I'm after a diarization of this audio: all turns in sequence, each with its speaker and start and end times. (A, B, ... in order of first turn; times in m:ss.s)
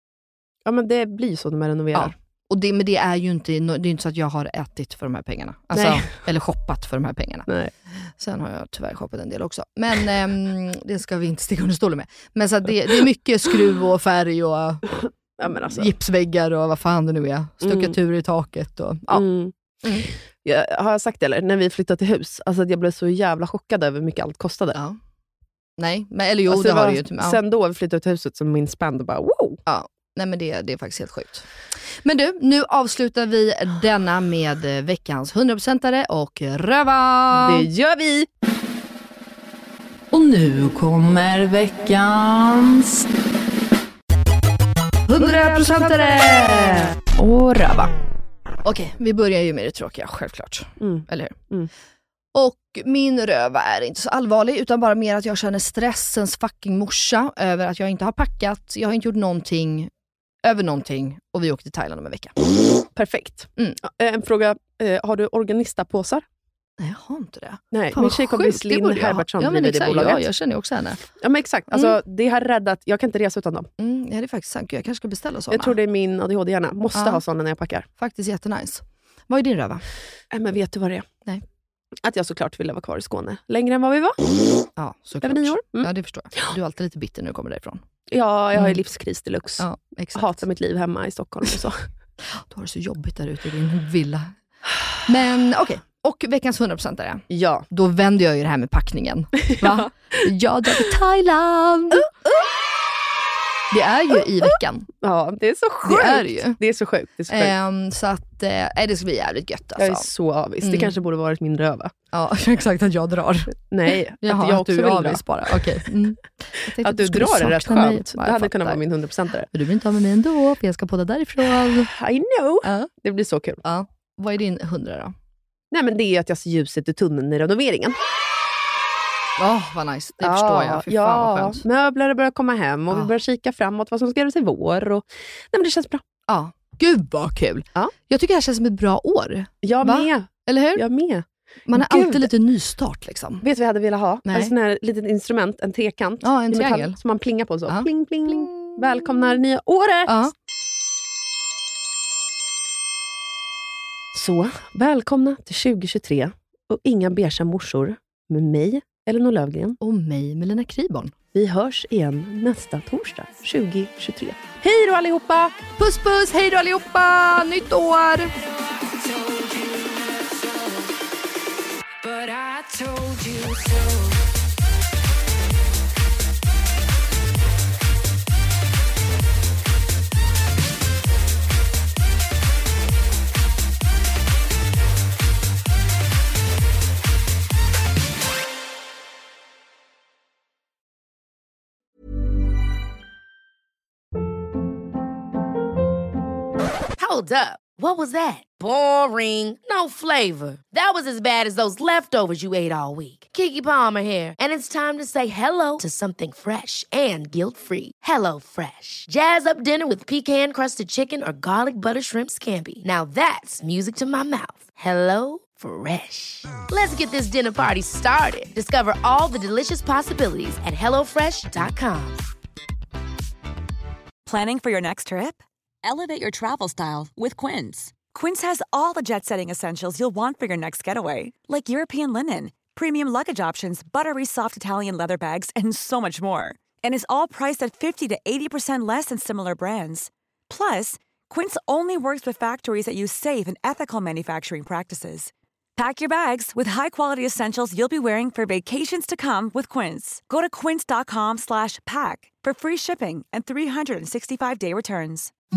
0:00.6-0:02.1 A
0:01.9-0:07.5 B
0:05.7-0:06.0 A
0:08.2-0:14.8 B
0:15.4-0:15.9 A
0:15.7-0:19.2 B
0:17.6-0:18.0 A
0:19.1-0:19.5 A
0:19.8-0:20.1 B
0:20.4-0:24.8 A
0:25.8-0:27.4 B
0:26.5-0:29.6 A
0:29.7-0:37.7 B
0:37.3-0:38.3 A
0:40.1-0:43.0 A
0:45.1-0:46.9 B
0:45.2-0:46.3 A
0:47.2-0:47.9 A
0:48.6-0:51.4 B
0:50.8-0:51.7 A
0:52.3-0:59.9 B
1:00.4-1:02.3 B
1:03.0-1:06.2 A
1:06.8-1:11.0 B
1:07.7-1:10.2 A
1:11.2-1:13.7 A
1:11.7-1:12.0 B
1:13.8-1:15.8 B
1:15.5-1:17.9 A
1:16.9-1:17.2 B
1:18.0-1:19.8 B
1:20.3-1:21.0 A
1:22.0-1:24.2 A
1:24.8-1:27.8 B
1:25.2-1:25.9 A
1:28.1-1:31.8 A
1:28.5-1:28.8 B
1:29.6-1:30.4 B
1:32.2-1:34.3 B
1:35.0-1:42.1 B
1:37.3-1:37.7 A
1:39.4-1:39.9 A
1:43.7-1:44.9 B
1:44.5-1:47.5 A
1:45.8-1:46.6 B
1:47.3-1:50.1 B
1:49.8-1:51.9 A
1:50.6-1:50.9 B
1:52.1-1:58.8 B
1:53.7-1:55.8 A
1:56.8-1:59.5 A
1:59.5-2:01.9 B
2:01.9-2:03.6 A
2:02.6-2:02.9 B
2:03.6-2:05.1 B
2:05.7-2:08.0 A
2:09.4-2:11.6 B
2:10.2-2:16.0 A
2:16.3-2:20.8 B
2:19.6-2:22.3 A
2:21.7-2:23.4 B
2:23.4-2:30.2 A
2:24.2-2:24.5 B
2:26.2-2:27.0 B
2:27.7-2:29.1 B
2:30.1-2:30.3 B
2:34.1-2:39.8 A
2:39.8-2:41.1 B
2:41.3-2:45.5 A
2:45.8-2:48.4 B
3:17.0-3:42.2 C
3:44.2-4:15.3 D